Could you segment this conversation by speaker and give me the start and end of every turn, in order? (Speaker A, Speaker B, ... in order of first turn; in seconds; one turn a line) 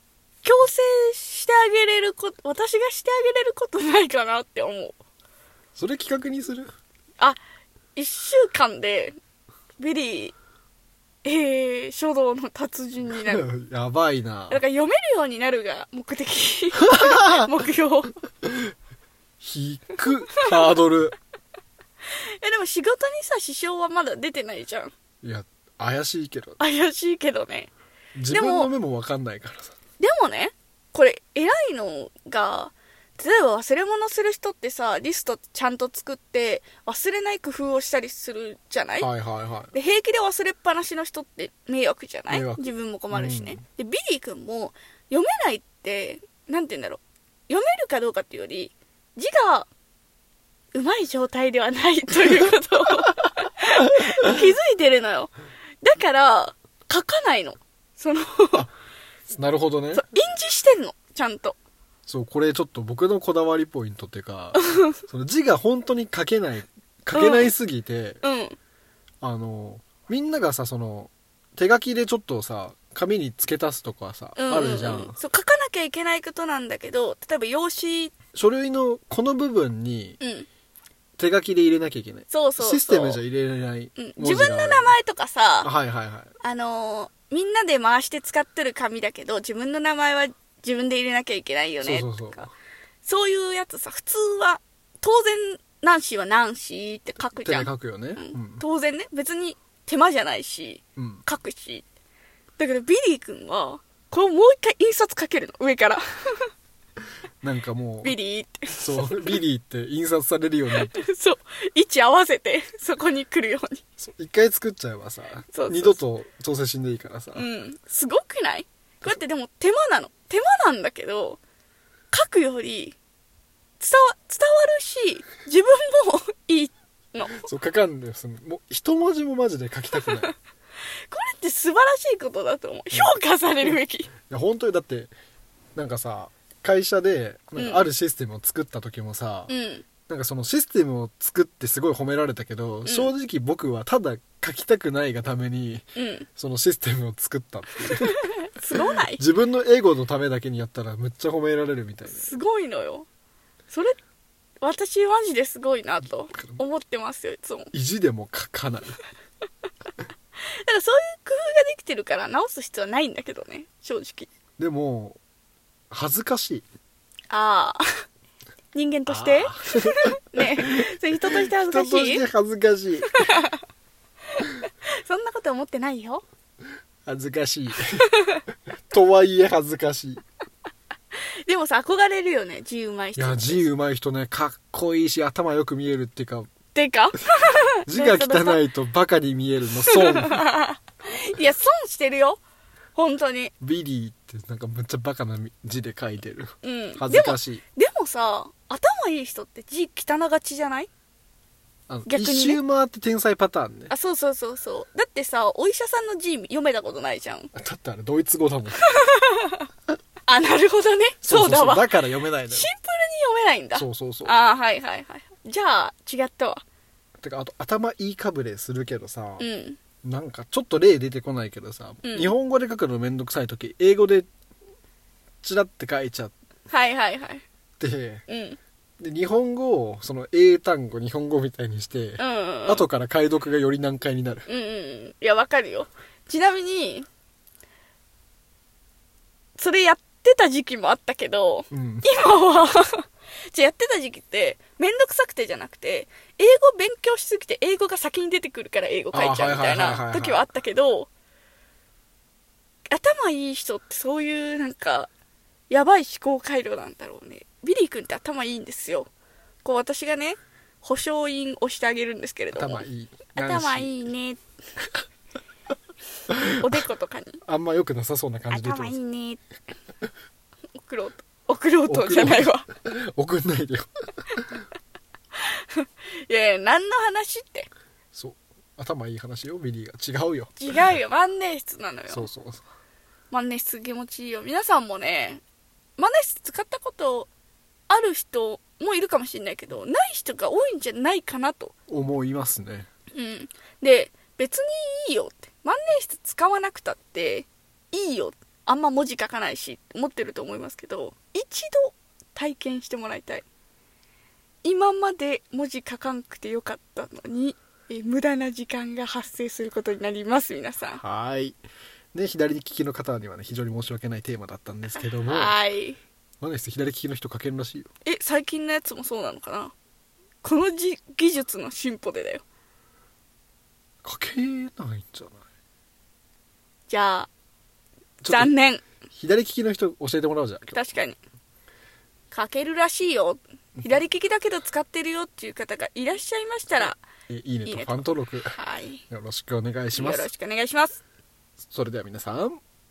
Speaker A: 0.4-5.0
Speaker B: 5.8-6.7
Speaker A: 8.0-9.1
Speaker A: 9.8-10.3
Speaker A: 11.2-13.5
Speaker B: 13.2-14.6
Speaker A: 14.5-18.2
Speaker B: 16.8-17.5
Speaker B: 19.4-21.1
Speaker A: 22.2-24.9
Speaker B: 25.2-26.6
Speaker A: 26.6-27.7
Speaker B: 28.1-29.8
Speaker A: 28.3-28.7
Speaker A: 30.0-39.1
Speaker B: 39.0-39.7
Speaker A: 39.7-49.7
Speaker B: 42.3-43.6
Speaker A: 50.7-55.3
Speaker A: 55.8-58.7
Speaker B: 59.3-60.0
Speaker A: 59.9-61.6
Speaker B: 62.1-68.2
Speaker A: 64.6-64.9
Speaker A: 67.1-67.5
Speaker A: 68.2-68.6
Speaker B: 69.2-75.2
Speaker A: 74.4-78.2
Speaker B: 78.3-80.2
Speaker A: 80.2-80.5
Speaker B: 81.2-85.0
Speaker A: 82.3-83.2
Speaker A: 84.0-85.7
Speaker B: 85.6-86.3
Speaker A: 86.4-92.5
Speaker B: 91.8-92.5
Speaker A: 93.0-101.9
Speaker B: 97.4-98.6
Speaker B: 101.0-101.2
Speaker A: 102.6-106.5
Speaker B: 107.4-108.2
Speaker A: 108.0-109.4
Speaker B: 108.8-111.0
Speaker A: 110.8-113.8
Speaker B: 114.0-117.5
Speaker A: 115.5-116.0
Speaker A: 117.3-121.4
Speaker A: 122.1-123.0
Speaker A: 123.8-127.4
Speaker B: 127.2-130.3
Speaker A: 131.1-134.1
Speaker B: 132.9-133.8
Speaker B: 134.3-135.1
Speaker B: 135.7-139.5
Speaker A: 137.6-137.9
Speaker A: 139.5-139.9
Speaker B: 140.1-148.3
Speaker A: 142.9-143.1
Speaker A: 145.9-146.3
Speaker A: 147.9-149.2
Speaker B: 149.1-152.3
Speaker A: 152.1-153.1
Speaker A: 153.7-154.0
Speaker A: 154.6-157.7
Speaker B: 157.7-159.0
Speaker A: 160.5-164.3
Speaker B: 164.6-165.2
Speaker B: 165.9-166.6
Speaker A: 167.3-167.8
Speaker A: 168.7-172.2
Speaker B: 169.1-173.1
Speaker A: 173.1-173.6
Speaker A: 174.6-176.2
Speaker B: 177.1-178.1
Speaker A: 178.1-178.4
Speaker B: 178.9-180.2
Speaker A: 181.4-183.7
Speaker B: 183.2-186.5
Speaker A: 186.7-188.6
Speaker B: 187.9-190.4
Speaker A: 189.8-192.4
Speaker A: 192.9-193.5
Speaker B: 193.6-197.6
Speaker A: 196.6-200.9
Speaker B: 201.9-203.9
Speaker A: 202.1-202.6
Speaker A: 203.9-207.5
Speaker B: 207.5-208.9
Speaker A: 208.8-209.7
Speaker A: 210.2-216.6
Speaker B: 211.2-212.7
Speaker B: 213.7-214.3
Speaker B: 217.2-219.5
Speaker A: 219.4-219.8
Speaker B: 220.0-224.3
Speaker A: 222.0-222.3
Speaker B: 225.4-226.3
Speaker A: 226.7-227.4
Speaker B: 227.8-228.2
Speaker A: 228.3-228.6
Speaker B: 229.0-234.5
Speaker A: 232.2-232.9
Speaker A: 234.5-237.1
Speaker A: 239.6-251.1
Speaker B: 241.7-242.1
Speaker B: 249.1-250.4
Speaker A: 252.9-255.1
Speaker A: 255.7-259.1
Speaker A: 259.6-264.4
Speaker B: 262.6-264.1
Speaker A: 266.6-267.4
Speaker B: 267.4-269.0
Speaker A: 268.5-269.4
Speaker A: 270.7-272.6
Speaker B: 271.9-274.6
Speaker A: 275.4-277.7
Speaker B: 278.1-280.8
Speaker A: 280.6-282.3
Speaker B: 282.1-282.6
Speaker A: 283.3-285.4
Speaker A: 286.0-287.3
Speaker A: 287.9-291.7
Speaker B: 291.9-292.9
Speaker A: 293.1-303.4
Speaker A: 304.6-311.0
Speaker B: 311.0-311.6
Speaker B: 312.1-315.6
Speaker A: 314.9-316.0
Speaker B: 316.4-317.9
Speaker A: 318.1-319.7
Speaker A: 320.4-322.4
Speaker B: 324.0-325.4
Speaker A: 326.9-327.3
Speaker B: 328.2-328.5
Speaker A: 328.3-328.8
Speaker B: 329.1-330.8
Speaker A: 330.7-331.2
Speaker A: 332.3-337.0
Speaker B: 337.3-338.5
Speaker A: 337.6-339.0
Speaker B: 339.1-340.3
Speaker A: 339.9-341.0
Speaker B: 341.7-342.6